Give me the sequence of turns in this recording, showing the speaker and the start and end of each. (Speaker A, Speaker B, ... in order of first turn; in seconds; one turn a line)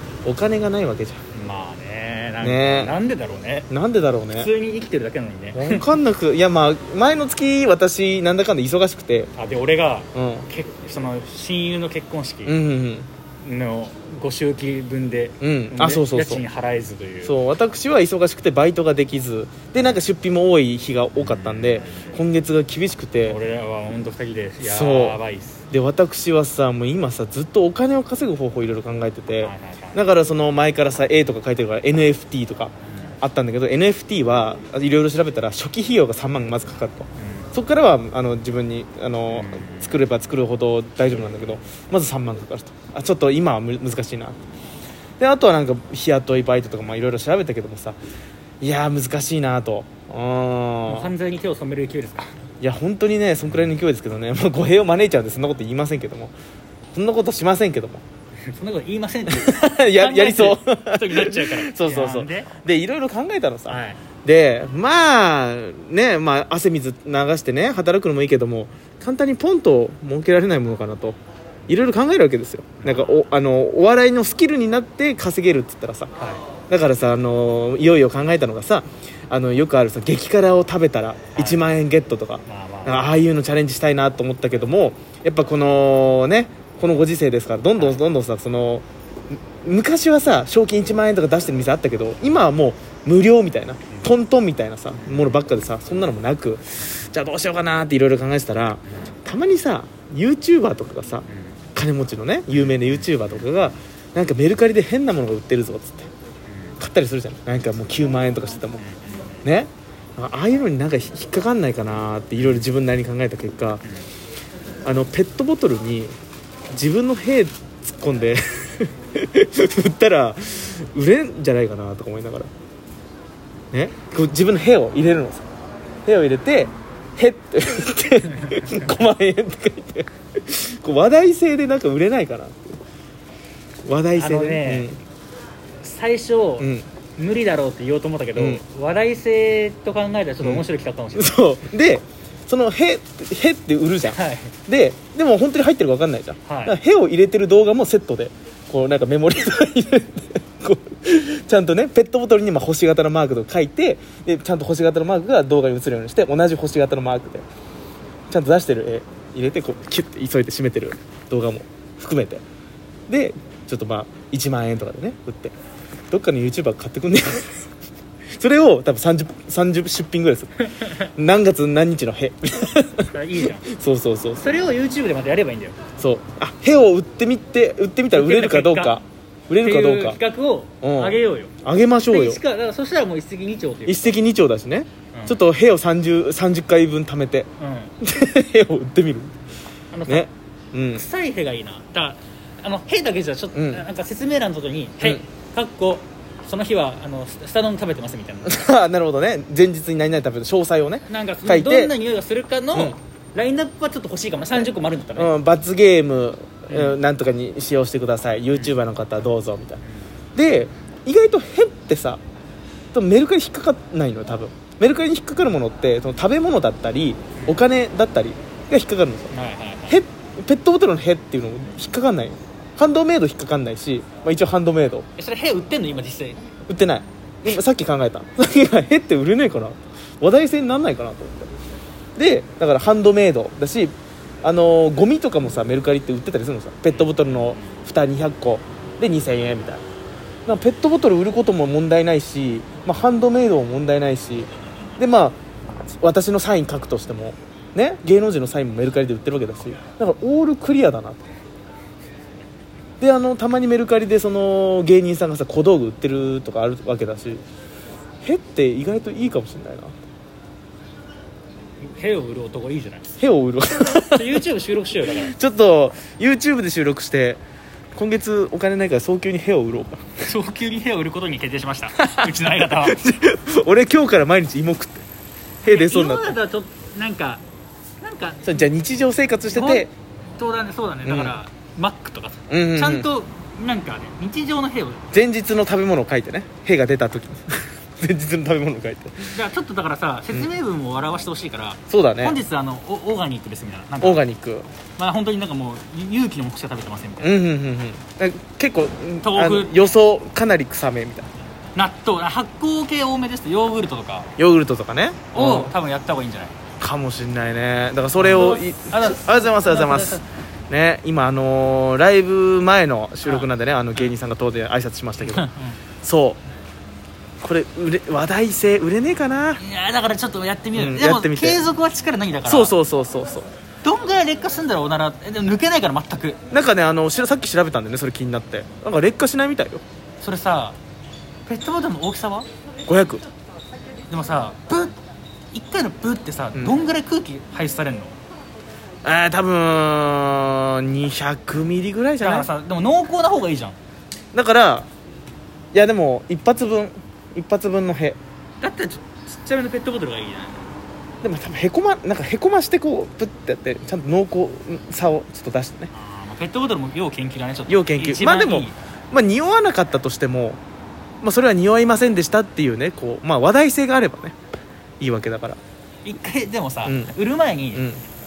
Speaker A: 0.2-1.2
Speaker B: 1.3-3.7
Speaker A: 2.4-3.0
Speaker A: 3.7-4.5
Speaker B: 4.3-5.9
Speaker A: 5.5-9.3
Speaker B: 9.3-12.6
Speaker A: 10.1-10.5
Speaker A: 12.4-13.1
Speaker B: 13.4-17.3
Speaker A: 15.4-16.4
Speaker A: 17.2-23.4
Speaker B: 21.2-22.2
Speaker B: 23.2-25.6
Speaker A: 24.6-44.4
Speaker B: 29.4-30.0
Speaker B: 32.9-33.1
Speaker B: 37.2-37.5
Speaker B: 39.3-40.0
Speaker A: 45.2-48.0
Speaker A: 48.6-51.1
Speaker B: 50.9-52.3
Speaker A: 52.6-56.3
Speaker A: 56.9-58.0
Speaker B: 58.5-62.5
Speaker A: 59.3-76.1
Speaker B: 63.7-64.0
Speaker B: 72.8-73.2
Speaker A: 76.7-106.1
Speaker B: 81.4-81.6
Speaker B: 82.5-83.0
Speaker B: 95.0-95.3
Speaker B: 101.3-101.5
Speaker B: 102.5-103.5
Speaker B: 106.5-106.8
Speaker A: 106.8-108.8
Speaker B: 108.8-109.4
Speaker A: 109.4-113.8
Speaker B: 112.4-112.7
Speaker A: 114.8-116.1
Speaker A: 116.7-122.5
Speaker A: 123.7-125.5
Speaker A: 126.0-132.8
Speaker B: 128.4-128.8
Speaker A: 133.8-135.0
Speaker B: 134.2-134.9
Speaker B: 135.8-141.4
Speaker A: 136.6-136.9
Speaker A: 138.4-138.6
Speaker A: 140.4-157.4
Speaker B: 144.1-144.5
Speaker B: 146.5-146.8
Speaker A: 158.3-162.4
Speaker A: 163.1-165.5
Speaker A: 166.1-167.7
Speaker A: 168.3-174.5
Speaker B: 170.7-171.1
Speaker B: 173.1-173.7
Speaker B: 174.4-175.8
Speaker A: 176.0-180.2
Speaker B: 178.1-179.0
Speaker B: 179.6-181.5
Speaker A: 180.8-182.4
Speaker B: 182.1-184.2
Speaker A: 183.9-187.5
Speaker B: 185.1-185.4
Speaker B: 187.6-187.9
Speaker A: 188.0-189.3
Speaker B: 189.9-190.3
Speaker A: 190.1-191.1
Speaker B: 190.9-198.6
Speaker A: 193.5-193.9
Speaker A: 198.4-201.9
Speaker B: 201.1-205.3
Speaker A: 205.2-209.8
Speaker B: 206.7-207.0
Speaker A: 210.4-212.2
Speaker A: 212.9-219.3
Speaker B: 219.3-220.0
Speaker A: 219.9-225.1
Speaker B: 225.2-226.4
Speaker A: 226.7-231.5
Speaker A: 232.2-239.8
Speaker B: 236.9-237.2
Speaker A: 240.5-245.4
Speaker A: 246.0-251.3
Speaker A: 253.0-257.4
Speaker A: 258.2-259.9
Speaker B: 261.8-263.2
Speaker A: 263.2-264.4
Speaker B: 264.0-265.4
Speaker A: 265.1-267.4
Speaker A: 267.9-270.1
Speaker B: 270.2-273.0
Speaker A: 272.0-275.0
Speaker A: 275.6-276.4
Speaker B: 275.7-277.4
Speaker B: 278.0-278.7
Speaker A: 278.4-279.9
Speaker B: 279.5-285.0
Speaker A: 281.1-281.4
Speaker A: 282.5-283.1
Speaker A: 285.1-289.3
Speaker B: 289.2-294.2
Speaker A: 291.9-292.4
Speaker A: 294.0-294.7
Speaker B: 295.0-297.4
Speaker A: 297.2-301.3
Speaker B: 299.2-299.9
Speaker B: 301.8-304.3
Speaker A: 304.4-305.7
Speaker B: 305.3-306.6
Speaker A: 306.8-315.5
Speaker B: 308.2-310.2
Speaker B: 313.2-314.1
Speaker B: 315.2-315.8
Speaker A: 316.0-316.4
Speaker A: 317.4-319.6
Speaker B: 319.6-322.7
Speaker A: 320.7-321.6
Speaker A: 322.5-323.5
Speaker B: 323.8-326.4
Speaker A: 326.5-329.8
Speaker B: 330.2-330.8
Speaker B: 331.5-332.5
Speaker A: 332.9-333.2
Speaker B: 334.1-334.9
Speaker B: 335.5-338.2
Speaker A: 339.0-342.5
Speaker B: 342.2-343.8
Speaker A: 344.3-344.9
Speaker A: 345.7-348.2
Speaker B: 348.6-350.6
Speaker A: 351.2-355.9
Speaker B: 355.9-358.8
Speaker A: 357.7-360.6
Speaker A: 361.2-364.4
Speaker A: 365.0-365.6
Speaker B: 366.1-367.9
Speaker A: 366.9-367.1
Speaker A: 367.7-368.0